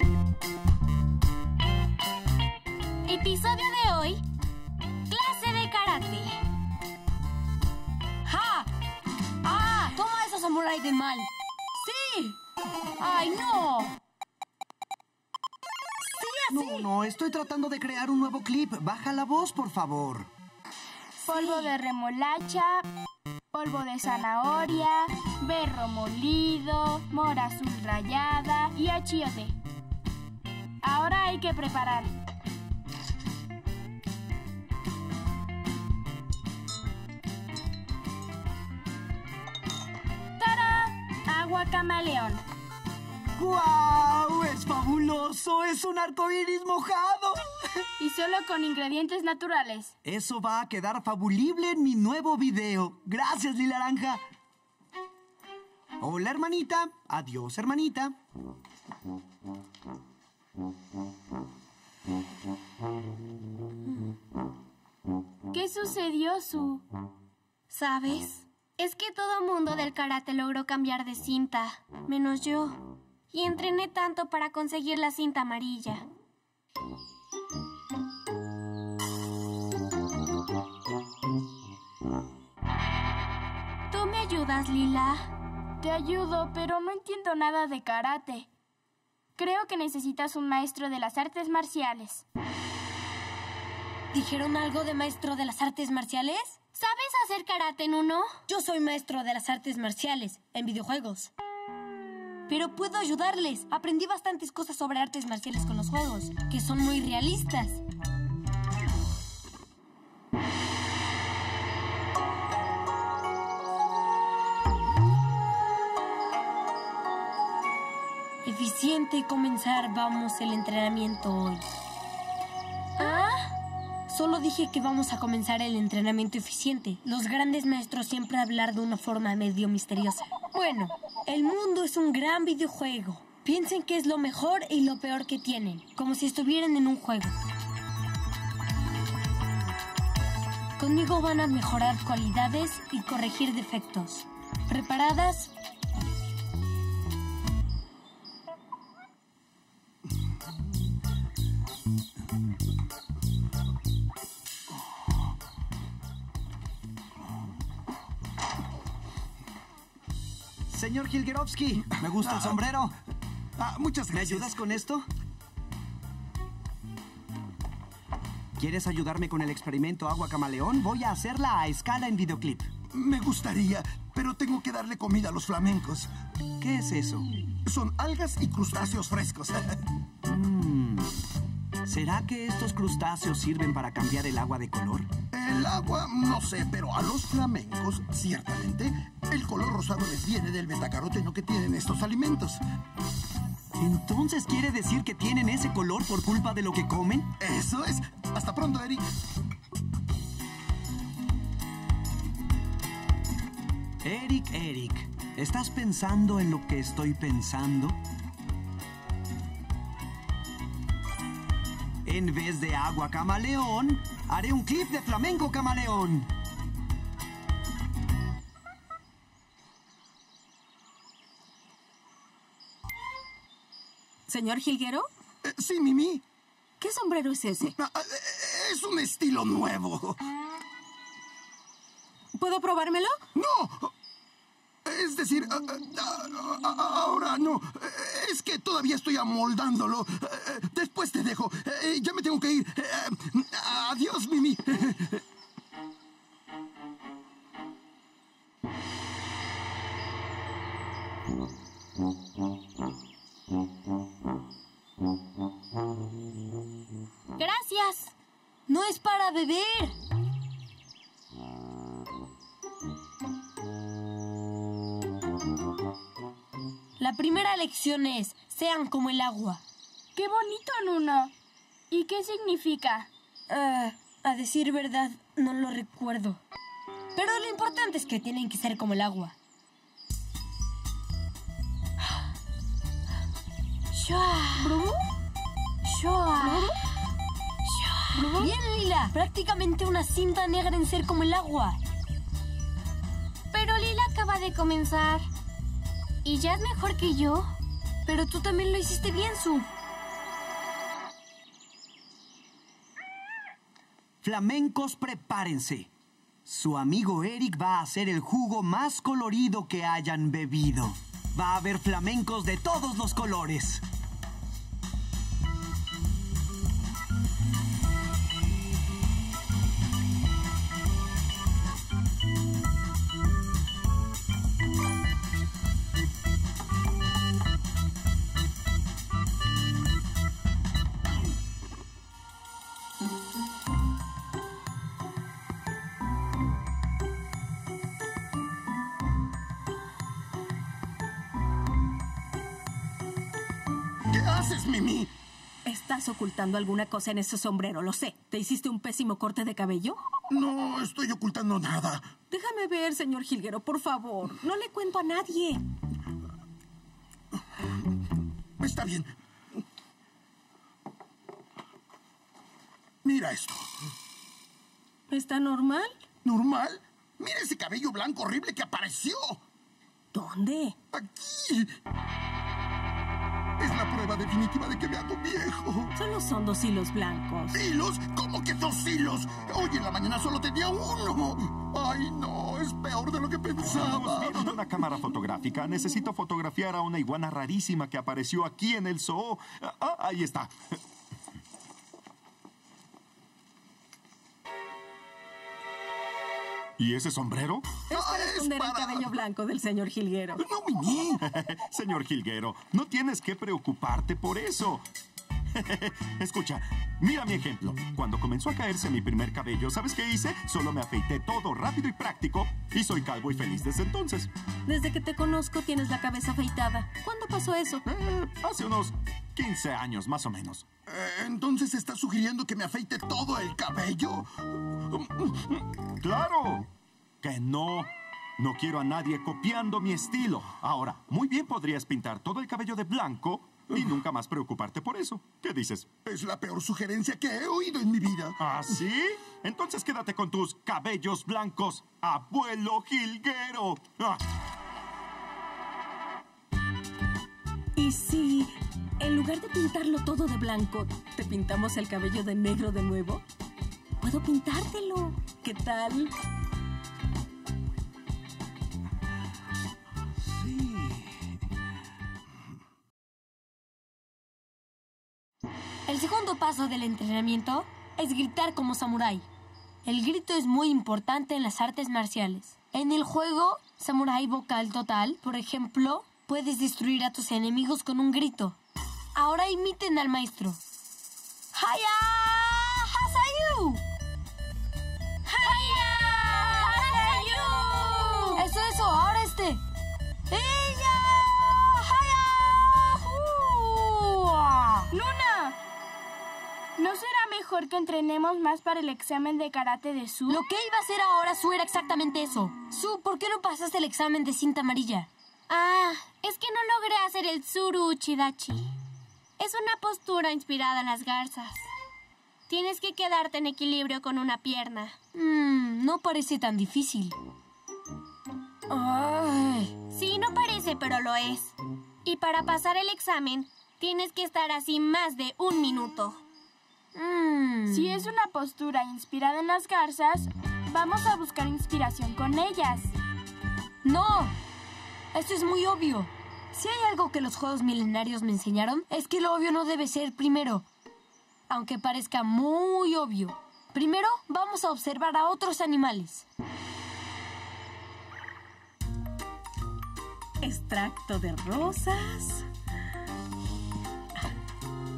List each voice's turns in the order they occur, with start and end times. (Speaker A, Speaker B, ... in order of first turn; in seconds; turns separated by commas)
Speaker A: 3.0-4.2, Speaker A: 5.1-6.4, Speaker B: 8.3-8.7, Speaker B: 9.4-12.4, Speaker B: 13.0-13.9, Speaker B: 16.1-16.9, Speaker C: 16.5-20.3, Speaker B: 21.3-21.7, Speaker D: 21.3-22.9, Speaker D: 23.5-29.6, Speaker D: 30.8-32.1, Speaker D: 40.4-42.4, Speaker C: 43.4-47.9, Speaker D: 48.0-49.9, Speaker C: 50.0-54.2, Speaker C: 56.0-58.1, Speaker D: 65.5-66.8, Speaker A: 67.7-72.8, Speaker A: 73.3-76.0, Speaker A: 83.9-85.3, Speaker D: 85.8-88.5, Speaker D: 89.4-92.2, Speaker B: 94.1-96.6, Speaker A: 96.8-98.3, Speaker B: 98.5-101.3, Speaker B: 102.5-107.8, Speaker B: 118.4-121.7, Speaker B: 123.0-123.3, Speaker A: 123.0-123.4, Speaker B: 124.1-137.3, Speaker B: 140.8-145.5, Speaker C: 160.7-162.9, Speaker E: 162.2-162.6, Speaker E: 163.6-164.5, Speaker C: 164.1-165.1, Speaker C: 168.6-172.7, Speaker E: 172.9-176.1, Speaker C: 176.6-177.3, Speaker E: 177.7-179.8, Speaker C: 180.2-181.1, Speaker C: 181.8-185.1, Speaker E: 185.3-192.6, Speaker C: 193.8-197.3, Speaker E: 197.4-199.1, Speaker C: 204.0-208.0, Speaker C: 212.1-216.3, Speaker F: 224.3-225.1, Speaker E: 225.4-226.2, Speaker F: 226.8-227.8, Speaker E: 227.7-230.2, Speaker F: 232.3-233.2, Speaker E: 233.4-233.9, Speaker E: 234.8-245.2, Speaker A: 257.4-258.1, Speaker B: 258.7-259.9, Speaker B: 267.0-269.6, Speaker D: 270.1-271.3, Speaker D: 271.9-273.1, Speaker B: 273.5-276.4, Speaker B: 277.1-279.4, Speaker A: 283.9-284.8, Speaker B: 284.6-285.0, Speaker A: 285.9-286.8, Speaker B: 286.4-286.7, Speaker A: 287.7-288.5, Speaker B: 288.2-291.8, Speaker A: 293.5-295.2, Speaker A: 296.2-297.5, Speaker B: 298.1-299.7, Speaker C: 304.2-305.9, Speaker C: 306.5-313.8, Speaker E: 344.1-345.1, Speaker F: 345.7-350.0, Speaker E: 350.3-352.1, Speaker F: 352.3-355.6, Speaker E: 358.6-359.1, Speaker E: 363.0-363.7, Speaker F: 365.1-365.9, Speaker E: 366.2-369.4, Speaker F: 370.1-370.8, Speaker E: 370.9-371.7, Speaker E: 373.6-375.9, Speaker F: 376.0-377.6, Speaker E: 377.5-384.6, Speaker G: 383.6-390.8, Speaker G: 396.8-397.8, Speaker F: 397.9-400.4, Speaker E: 397.9-399.1, Speaker E: 400.4-401.2, Speaker G: 401.2-404.8, Speaker G: 405.5-414.3, Speaker F: 414.7-417.8, Speaker G: 417.9-420.6, Speaker E: 420.9-425.6, Speaker G: 426.0-426.7, Speaker G: 427.2-435.9, Speaker E: 436.1-438.4, Speaker G: 438.4-444.2, Speaker F: 447.8-453.2, Speaker F: 454.0-456.1, Speaker B: 465.9-469.3, Speaker B: 469.9-478.6, Speaker B: 479.1-480.6, Speaker B: 481.5-483.8, Speaker B: 485.3-487.7, Speaker A: 485.4-488.4, Speaker B: 488.3-489.6, Speaker B: 490.3-494.9, Speaker D: 494.9-495.6, Speaker D: 496.8-500.4, Speaker B: 500.3-505.1, Speaker A: 505.5-508.7, Speaker A: 509.4-511.7, Speaker A: 512.5-515.0, Speaker B: 515.1-517.2, Speaker B: 518.7-519.7, Speaker A: 519.9-521.5, Speaker A: 522.0-526.2, Speaker B: 527.0-527.9, Speaker D: 527.7-532.9, Speaker B: 533.8-534.4, Speaker B: 535.1-540.7, Speaker B: 541.5-546.3, Speaker F: 550.4-552.5